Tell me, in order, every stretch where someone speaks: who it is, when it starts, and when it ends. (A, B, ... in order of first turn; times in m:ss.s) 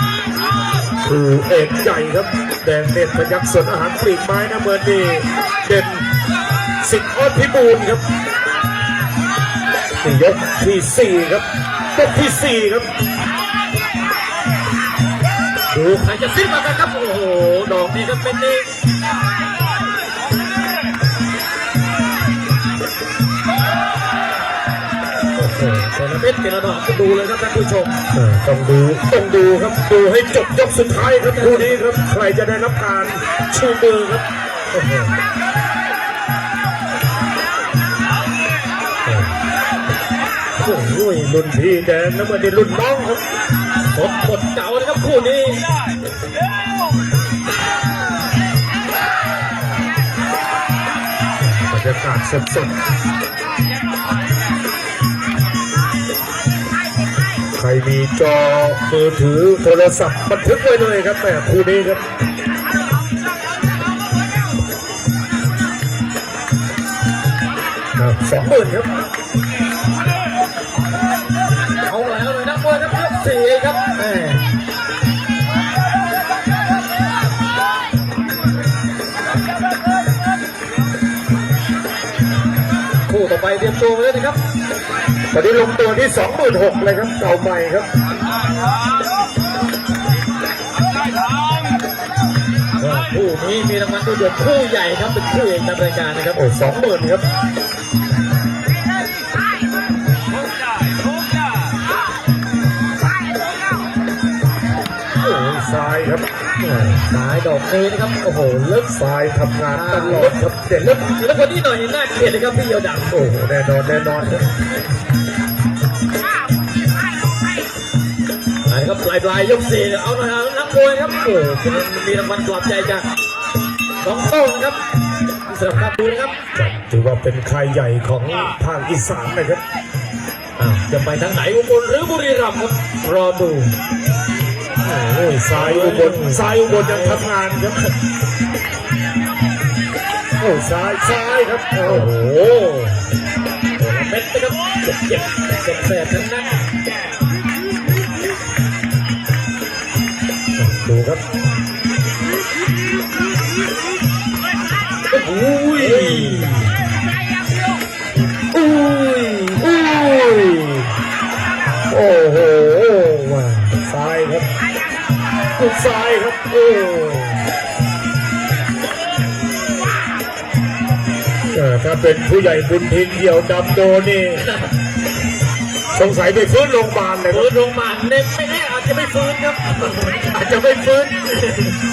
0:01.0-0:06.1 A
0:06.8-0:08.0 A
0:10.0-0:12.9 A
0:15.7-0:18.7 B
0:25.4-0:27.9 B
0:28.1-0:34.2 A
0:31.3-0:31.8 B
0:34.7-0:35.1 B
0:39.0-0:39.3 A
0:40.6-0:43.2 A
0:43.9-0:45.6 B
0:51.4-0:52.7 A
0:57.6-1:02.0 A
1:08.0-1:08.9 A
1:11.8-1:14.4 B
1:23.1-1:24.4 B
1:25.3-1:27.9 A
1:32.8-1:36.4 B
1:36.3-1:37.2 A
1:45.2-1:46.6 A
1:46.6-1:48.9 B
1:48.9-1:51.1 A
1:49.7-1:50.3 B
1:51.2-1:53.1 B
1:53.1-1:54.5 A
1:58.7-2:03.1 B
2:04.0-2:04.8 B
2:05.5-2:06.3 B
2:06.5-2:09.6 A
2:10.6-2:13.7 B
2:14.8-2:17.8 A
2:15.6-2:17.1 B
2:20.4-2:22.1 A
2:21.8-2:23.0 B
2:23.8-2:26.6 B
2:30.6-2:31.2 A
2:35.1-2:36.5 B
2:35.6-2:36.8 A
2:38.5-2:40.9 A
2:41.9-2:44.5 A
2:45.6-2:47.4 A
2:51.5-2:54.5 A
2:55.9-2:57.5 A
2:57.3-3:00.4 B
3:00.2-3:01.3 A